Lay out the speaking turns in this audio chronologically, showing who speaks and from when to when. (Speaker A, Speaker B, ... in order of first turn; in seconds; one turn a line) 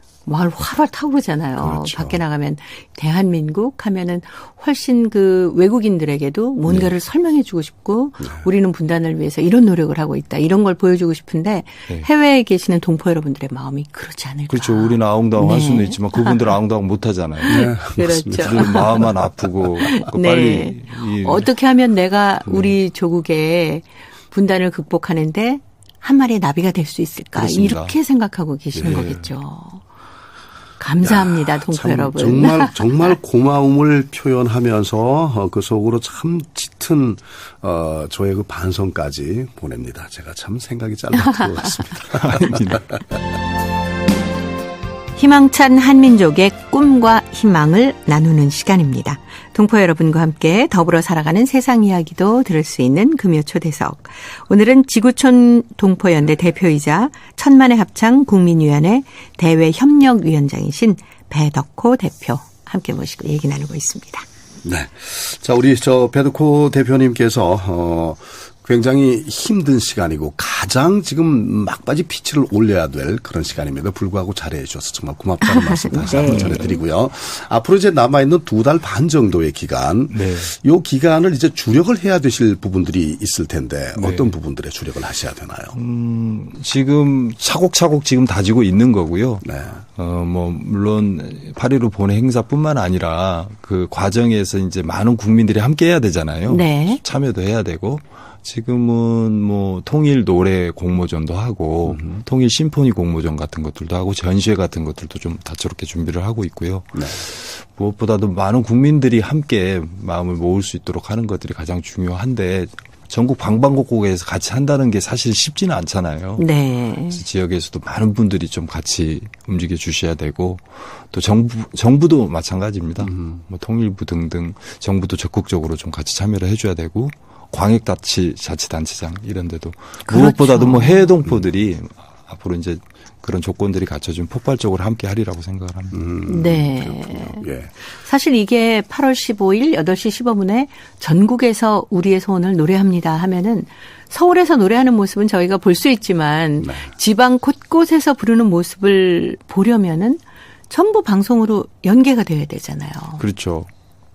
Speaker A: 0.2-16.6
Speaker B: 1.6-2.2
Speaker B: 8.2-8.4
Speaker C: 14.5-17.7
Speaker A: 17.4-19.1
Speaker B: 17.5-19.1
Speaker C: 18.3-21.5
Speaker A: 19.8-29.8
Speaker C: 22.4-22.8
Speaker C: 27.3-28.0
Speaker B: 28.7-29.1
Speaker C: 28.8-29.3
Speaker A: 30.8-32.9
Speaker B: 31.0-43.0
Speaker A: 41.3-41.7
Speaker C: 42.1-42.8
Speaker A: 45.1-64.2
Speaker B: 64.6-85.8
Speaker A: 75.4-76.8
Speaker C: 76.2-76.7
Speaker C: 80.1-80.5
Speaker C: 84.0-84.3
Speaker C: 85.7-89.4
Speaker B: 89.4-89.8
Speaker C: 90.0-116.5
Speaker A: 96.5-97.0
Speaker B: 101.8-102.2
Speaker B: 106.9-107.2
Speaker A: 116.4-117.2
Speaker C: 117.1-136.0
Speaker B: 123.0-123.4
Speaker A: 130.1-131.1
Speaker B: 135.9-137.7
Speaker A: 136.2-153.2
Speaker B: 146.6-146.9
Speaker C: 153.2-153.7